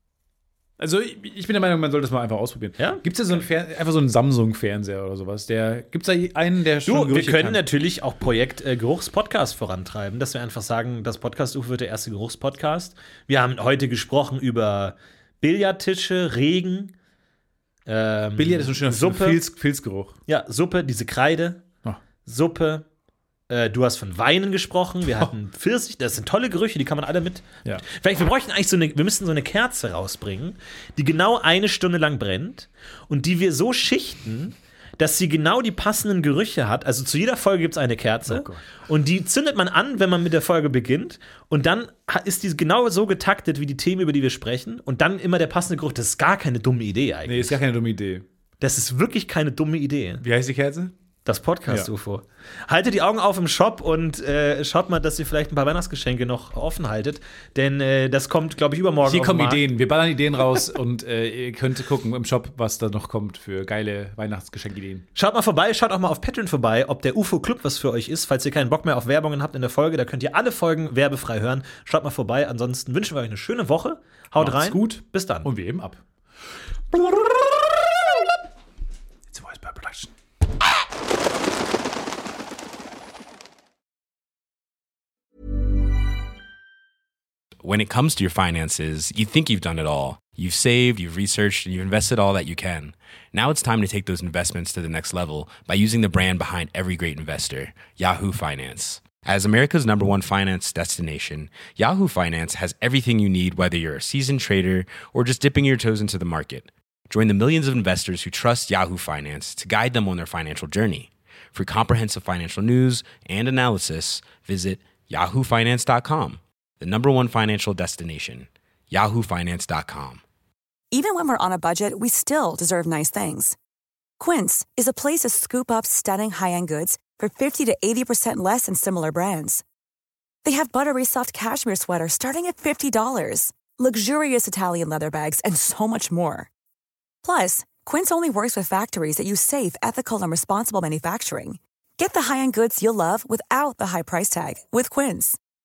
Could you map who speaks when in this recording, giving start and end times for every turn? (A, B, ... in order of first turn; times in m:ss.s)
0:00.8-0:07.6 A
0:02.8-0:03.0 B
0:06.9-0:16.9 B
0:17.9-0:19.4 B
0:18.4-0:20.2 A
0:20.3-0:21.6 B
0:22.2-0:22.8 B
0:23.5-0:47.6 B
0:38.3-0:38.6 A
0:47.3-0:48.3 A
0:48.6-0:50.2 B
0:50.2-0:50.9 A
0:51.2-0:59.7 B
0:59.0-1:05.0 A
1:05.2-1:15.5 B
1:14.4-1:16.0 A
1:16.9-1:18.3 A
1:19.3-1:20.1 A
1:27.6-2:00.2 C
2:00.9-2:03.6 D
2:04.2-2:09.6 D
2:10.4-2:16.5 D
2:17.2-2:25.4 D